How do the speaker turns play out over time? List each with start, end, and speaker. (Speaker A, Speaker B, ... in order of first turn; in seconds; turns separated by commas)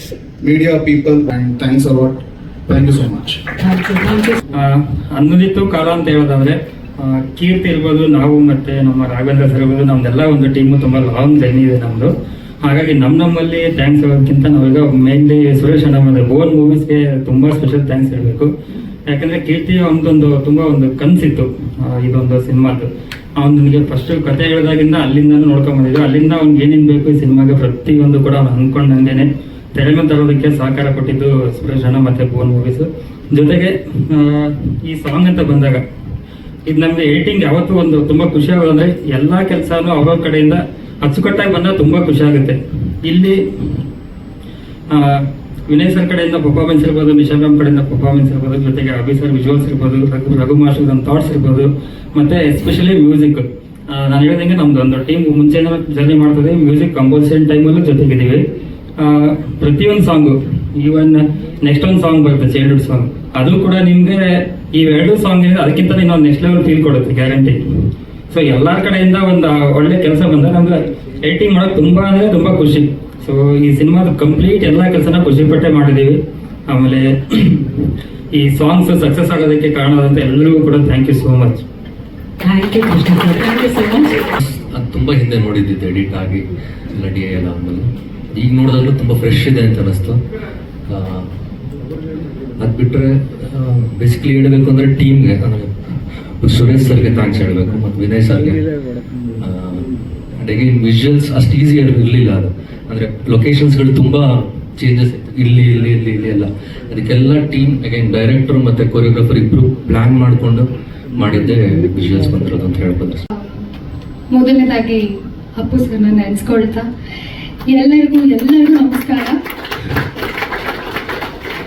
Speaker A: 0.4-3.5, Speaker B: 3.6-4.4, Speaker C: 4.5-18.5, Speaker C: 19.1-35.8, Speaker C: 36.6-43.8, Speaker C: 44.9-58.5, Speaker C: 59.0-81.6, Speaker B: 82.4-84.2, Speaker D: 84.4-90.2, Speaker D: 90.9-91.3, Speaker D: 92.6-98.7, Speaker D: 99.4-113.2, Speaker E: 113.3-113.6, Speaker E: 114.3-116.9, Speaker E: 117.7-119.4